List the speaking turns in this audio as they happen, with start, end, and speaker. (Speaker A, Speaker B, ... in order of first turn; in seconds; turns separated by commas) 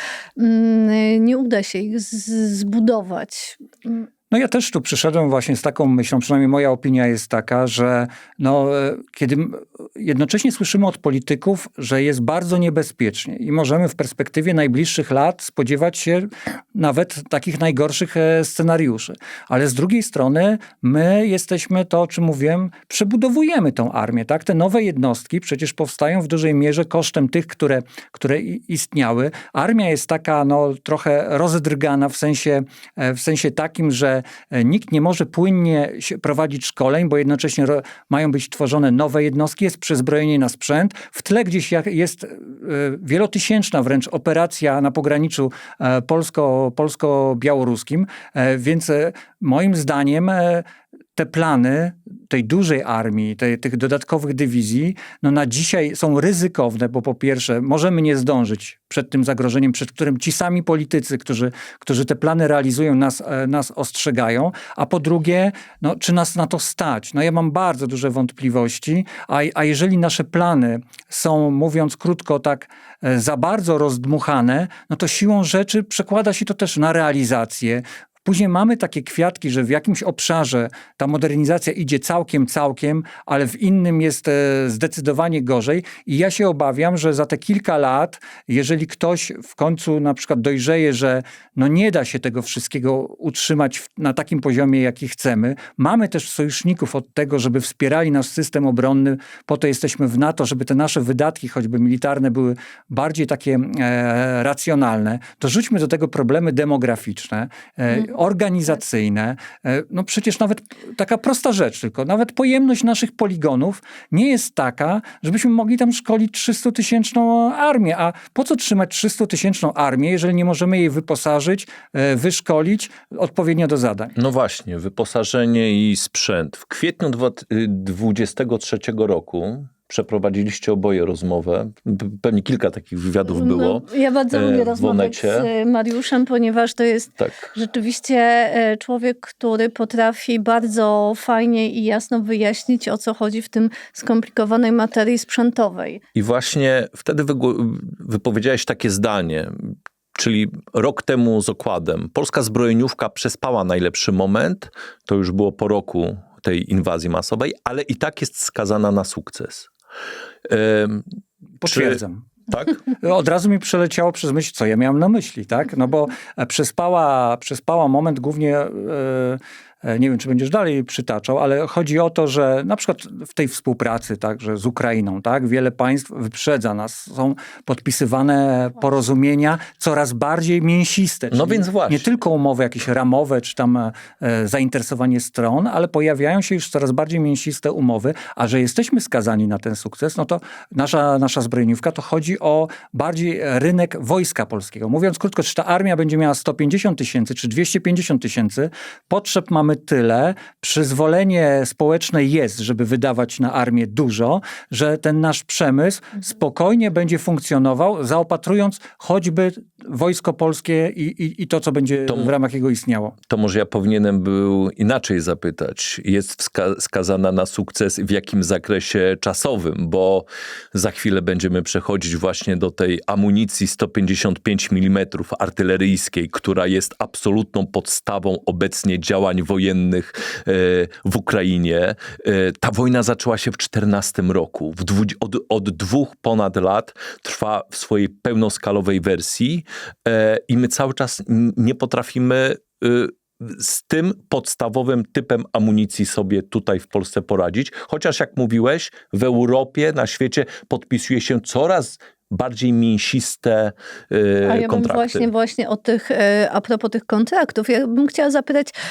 Speaker A: 0.4-4.1, Speaker B: 4.3-124.1, Speaker C: 124.2-135.5, Speaker A: 133.2-146.0, Speaker C: 137.2-137.5, Speaker C: 146.1-159.7, Speaker C: 160.5-161.1, Speaker B: 161.6-162.3, Speaker C: 161.6-162.8, Speaker B: 162.9-213.1, Speaker C: 181.3-182.1, Speaker C: 213.3-255.3, Speaker A: 254.4-258.7